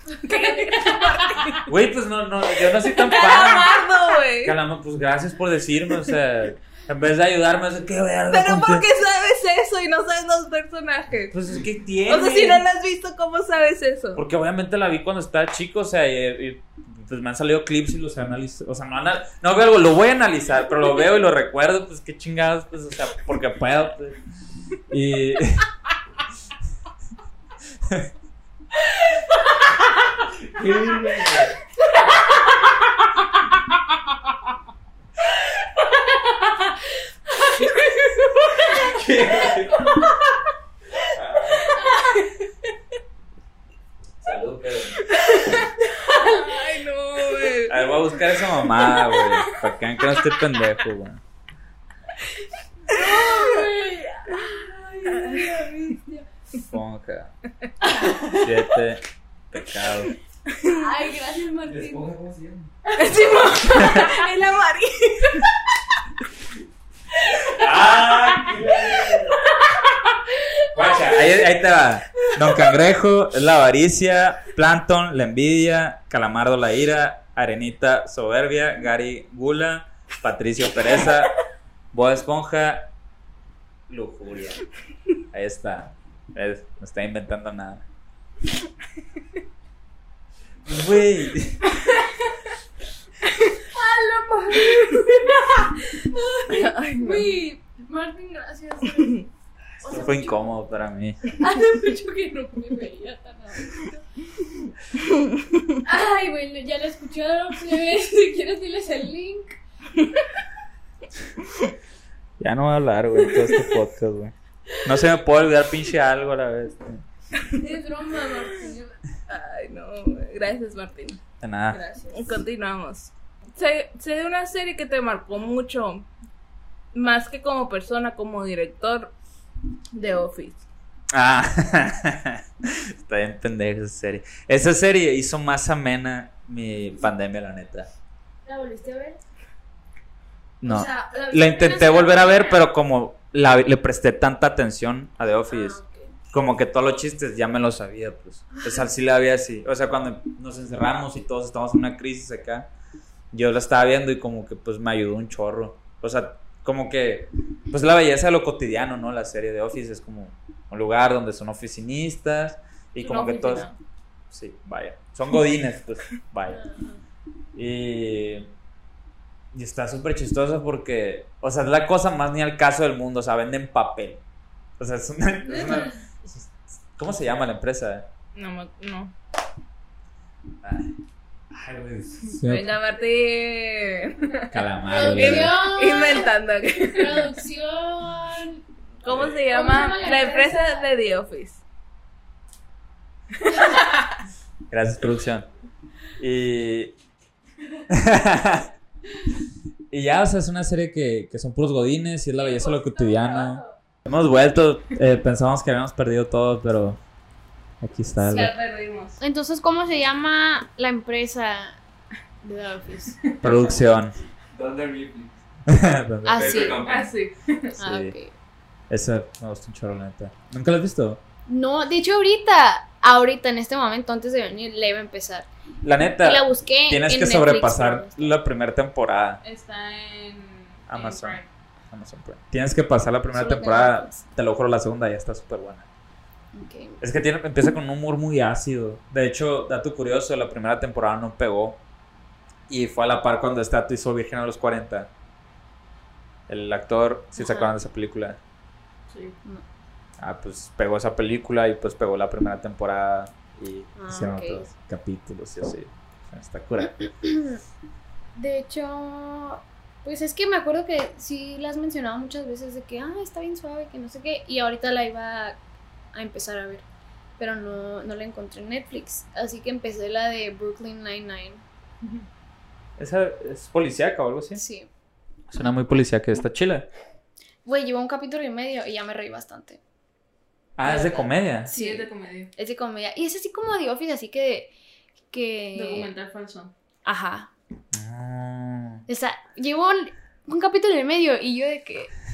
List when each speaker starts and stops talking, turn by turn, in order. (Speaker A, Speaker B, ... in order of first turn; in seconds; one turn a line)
Speaker A: 0.2-1.6
Speaker B: 0.2-1.6
Speaker C: 1.6-3.8
Speaker B: 2.7-4.6
Speaker C: 4.4-8.9
Speaker B: 8.3-11.4
Speaker C: 11.3-12.6
Speaker B: 12.1-14.2
Speaker C: 14.1-24.2
Speaker C: 24.9-25.7
Speaker C: 27.8-28.1
Speaker C: 30.3-31.6
Speaker B: 37.4-38.9
Speaker C: 38.6-39.9
Speaker C: 41.1-41.8
Speaker B: 41.7-42.3
Speaker C: 44.2-45.1
Speaker B: 45.0-50.3
Speaker A: 46.1-46.6
Speaker C: 47.7-51.2
Speaker A: 52.9-56.3
Speaker B: 52.9-53.7
Speaker B: 55.1-55.7
Speaker C: 56.7-57.3
Speaker C: 58.3-60.1
Speaker B: 60.5-60.8
Speaker A: 60.7-62.1
Speaker D: 61.6-62.7
Speaker B: 62.9-65.6
Speaker A: 63.5-64.2
Speaker C: 63.7-64.1
Speaker B: 67.2-71.0
Speaker C: 67.4-69.4
Speaker C: 70.7-81.4
Speaker B: 72.2-72.7
Speaker C: 81.9-82.9
Speaker C: 83.9-84.6
Speaker C: 85.3-87.8
Speaker C: 90.6-91.7
Speaker A: 93.6-99.3
Speaker B: 94.7-95.2
Speaker B: 96.5-97.3
Speaker A: 99.8-100.5
Speaker C: 99.9-101.2
Speaker A: 101.4-104.0
Speaker B: 104.9-105.8
Speaker A: 105.8-109.6
Speaker C: 112.4-117.0
Speaker B: 113.3-113.7
Speaker A: 117.5-119.0
Speaker B: 119.3-121.2
Speaker C: 121.4-121.8
Speaker A: 121.7-122.4
Speaker B: 122.1-126.1
Speaker B: 126.9-129.1
Speaker B: 129.9-130.6
Speaker C: 131.1-137.9
Speaker A: 138.4-139.2
Speaker C: 140.6-152.7
Speaker A: 140.6-142.6
Speaker A: 145.5-146.1
Speaker C: 153.3-163.7
Speaker B: 163.0-163.8
Speaker C: 164.3-166.6
Speaker A: 166.5-167.0
Speaker C: 167.5-168.5
Speaker C: 169.5-174.2
Speaker C: 174.8-178.1
Speaker B: 178.3-179.1
Speaker C: 180.6-180.9
Speaker C: 181.5-182.7
Speaker B: 182.3-187.4
Speaker C: 184.5-185.6
Speaker A: 184.8-186.3
Speaker A: 186.9-188.6
Speaker B: 189.0-191.6
Speaker C: 189.1-189.4
Speaker A: 189.5-190.8
Speaker B: 193.4-194.1
Speaker C: 194.7-195.5
Speaker C: 196.2-196.9
Speaker C: 197.9-198.7
Speaker C: 199.9-207.0
Speaker A: 202.4-203.6
Speaker C: 207.8-208.5
Speaker B: 208.2-209.2
Speaker A: 209.2-211.8
Speaker A: 212.4-213.3
Speaker B: 213.2-213.5
Speaker C: 213.4-214.2
Speaker D: 214.5-215.4
Speaker C: 215.7-217.0
Speaker A: 216.2-216.8
Speaker D: 216.3-217.1
Speaker B: 216.8-217.7
Speaker C: 217.7-218.1
Speaker A: 217.8-218.3
Speaker C: 218.9-221.2
Speaker A: 221.4-225.5
Speaker C: 225.8-229.4
Speaker A: 226.2-228.4
Speaker B: 229.4-231.5
Speaker C: 230.9-235.9
Speaker A: 233.3-234.2
Speaker A: 236.5-237.0
Speaker C: 237.0-241.8
Speaker C: 242.7-245.1
Speaker C: 246.5-248.4
Speaker A: 247.3-247.8
Speaker B: 249.1-249.4
Speaker C: 250.2-257.1
Speaker A: 253.9-254.7
Speaker A: 257.1-257.6
Speaker A: 258.4-265.6
Speaker A: 266.1-266.8
Speaker A: 267.4-271.6
Speaker C: 273.0-274.6
Speaker A: 274.6-274.9
Speaker C: 275.5-276.9
Speaker A: 277.6-279.8
Speaker C: 280.8-281.7
Speaker A: 280.9-284.7
Speaker B: 281.7-282.5
Speaker A: 285.3-286.1
Speaker B: 285.7-286.7
Speaker A: 287.0-287.5
Speaker C: 287.9-289.0
Speaker A: 289.1-292.1